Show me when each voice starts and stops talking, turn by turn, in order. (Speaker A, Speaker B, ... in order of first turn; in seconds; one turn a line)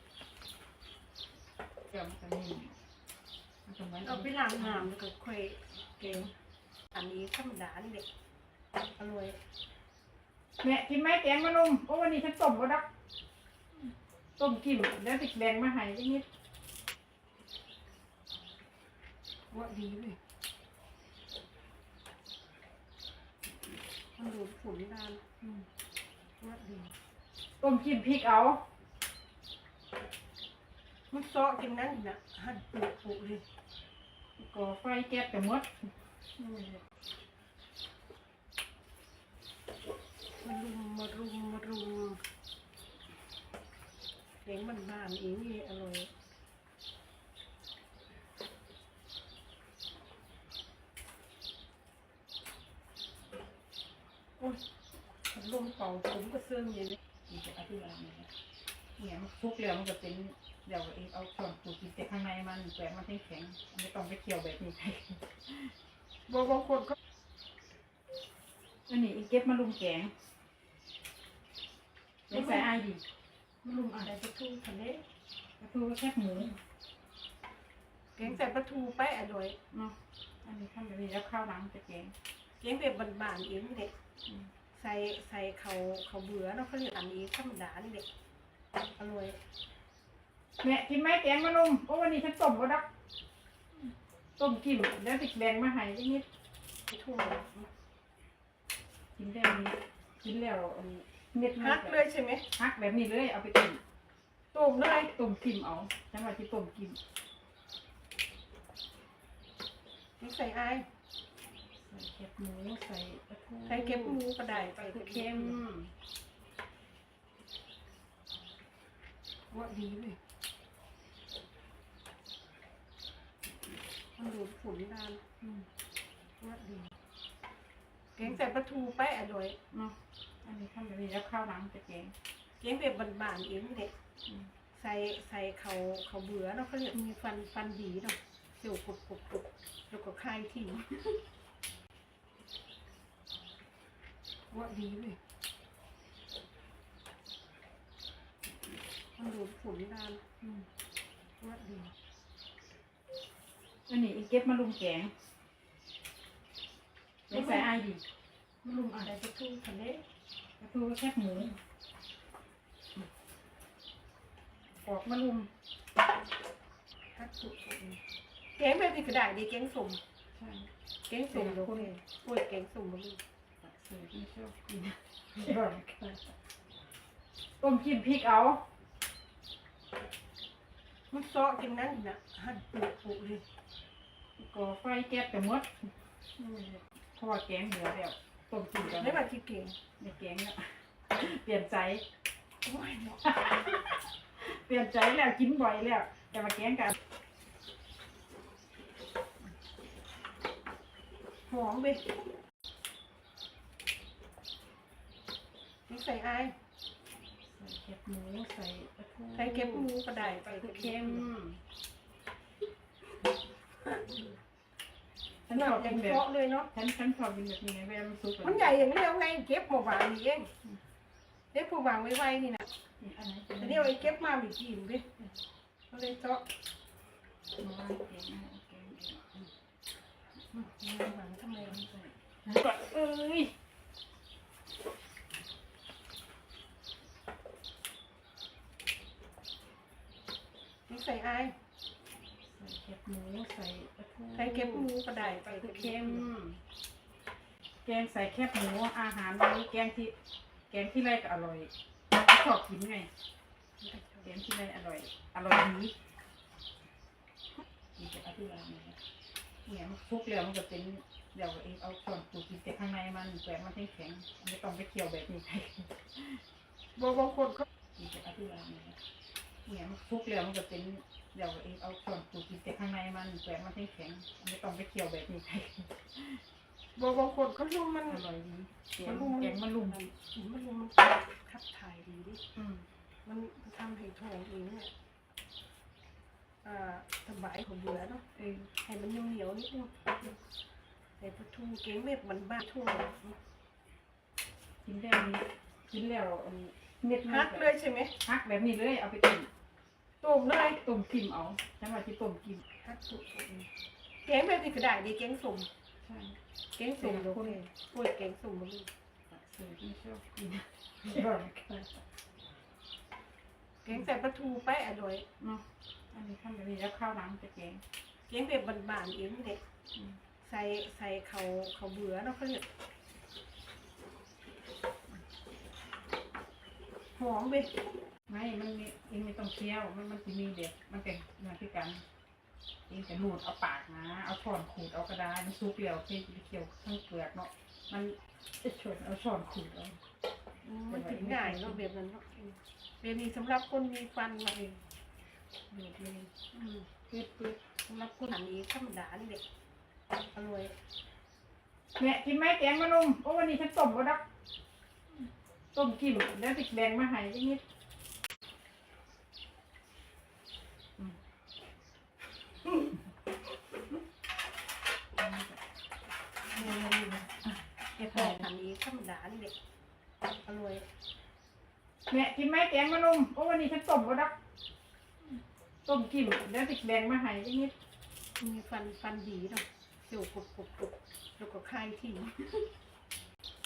Speaker A: 1.9-2.8
Speaker A: 3.7-4.9
Speaker B: 4.0-6.3
Speaker B: 6.9-8.1
Speaker B: 9.0-9.4
Speaker A: 10.6-12.9
Speaker A: 14.4-16.2
Speaker B: 19.5-20.2
Speaker B: 24.2-25.2
Speaker B: 26.4-26.9
Speaker A: 27.6-28.7
Speaker B: 31.1-33.5
Speaker A: 34.4-36.8
Speaker B: 40.4-42.2
Speaker B: 44.5-46.1
Speaker B: 54.4-54.6
Speaker B: 55.2-57.0
Speaker A: 57.3-58.3
Speaker A: 59.0-65.7
Speaker B: 66.3-67.0
Speaker A: 68.9-70.1
Speaker A: 72.3-73.0
Speaker A: 73.7-74.1
Speaker B: 74.0-75.0
Speaker A: 75.6-76.6
Speaker B: 78.2-79.6
Speaker A: 79.7-82.1
Speaker B: 82.6-83.9
Speaker B: 84.7-88.1
Speaker B: 89.0-89.4
Speaker A: 90.6-92.9
Speaker A: 94.4-96.2
Speaker B: 96.9-97.6
Speaker A: 99.2-102.0
Speaker B: 101.6-102.5
Speaker A: 102.5-103.8
Speaker B: 104.5-105.1
Speaker A: 104.9-107.0
Speaker B: 110.2-110.9
Speaker A: 111.8-115.9
Speaker B: 113.7-115.6
Speaker B: 119.5-120.2
Speaker B: 124.2-125.2
Speaker A: 125.4-125.7
Speaker B: 126.4-127.0
Speaker B: 128.2-129.6
Speaker A: 129.7-132.1
Speaker B: 132.6-133.9
Speaker B: 134.7-140.9
Speaker B: 144.5-145.2
Speaker B: 149.2-150.2
Speaker B: 151.4-151.9
Speaker A: 153.9-155.1
Speaker A: 157.3-158.0
Speaker A: 158.7-159.0
Speaker B: 159.0-160.0
Speaker A: 160.6-161.6
Speaker A: 164.8-165.5
Speaker B: 167.2-168.0
Speaker B: 168.6-170.0
Speaker A: 170.3-170.7
Speaker B: 171.1-173.2
Speaker A: 171.3-171.9
Speaker A: 173.6-176.3
Speaker A: 177.6-178.7
Speaker B: 181.1-183.4
Speaker A: 184.4-189.2
Speaker B: 188.8-189.8
Speaker A: 190.0-192.0
Speaker B: 192.6-193.3
Speaker A: 193.2-197.0
Speaker B: 201.5-202.1
Speaker B: 205.9-206.6
Speaker A: 207.5-211.6
Speaker B: 209.3-211.3
Speaker B: 213.8-214.1
Speaker A: 215.4-218.9
Speaker B: 215.5-216.7
Speaker B: 218.4-220.5
Speaker B: 221.5-222.7
Speaker A: 223.0-224.2
Speaker B: 223.6-225.1
Speaker B: 225.9-226.4
Speaker A: 227.6-229.5
Speaker B: 230.5-231.8
Speaker A: 231.6-233.5
Speaker B: 240.9-241.6
Speaker A: 242.5-246.6
Speaker B: 244.3-246.3
Speaker A: 247.8-250.1
Speaker A: 250.7-253.1
Speaker B: 253.8-254.3
Speaker A: 254.2-255.9
Speaker A: 258.0-259.0
Speaker A: 259.6-266.4
Speaker B: 267.0-267.6
Speaker A: 268.0-269.0
Speaker A: 269.6-276.4
Speaker B: 277.0-278.2
Speaker A: 278.1-280.0
Speaker B: 279.0-282.4
Speaker A: 282.6-282.9
Speaker B: 283.2-284.9
Speaker B: 286.6-288.2
Speaker A: 288.4-288.7
Speaker B: 288.8-290.3
Speaker B: 291.2-293.2
Speaker A: 294.9-299.5
Speaker B: 297.2-298.1
Speaker B: 300.2-300.8
Speaker A: 300.7-302.6
Speaker B: 302.8-303.7
Speaker B: 304.2-305.7
Speaker A: 306.0-306.4
Speaker B: 306.8-308.9
Speaker A: 307.0-307.6
Speaker A: 309.3-312.0
Speaker B: 313.8-315.3
Speaker A: 315.4-317.8
Speaker B: 318.3-319.6
Speaker A: 319.9-320.2
Speaker B: 320.4-322.6
Speaker B: 327.1-327.8
Speaker A: 328.3-332.0
Speaker A: 332.9-340.0
Speaker B: 340.6-344.8
Speaker A: 340.9-341.8
Speaker A: 345.7-346.4
Speaker B: 346.5-346.8
Speaker A: 347.1-347.6
Speaker B: 347.9-349.4
Speaker B: 350.3-350.7
Speaker A: 352.0-354.2
Speaker A: 355.7-357.6
Speaker A: 365.2-365.6
Speaker B: 366.5-367.4
Speaker B: 368.0-369.5
Speaker B: 370.5-370.9
Speaker A: 372.1-374.4
Speaker A: 375.9-377.7
Speaker B: 378.4-382.4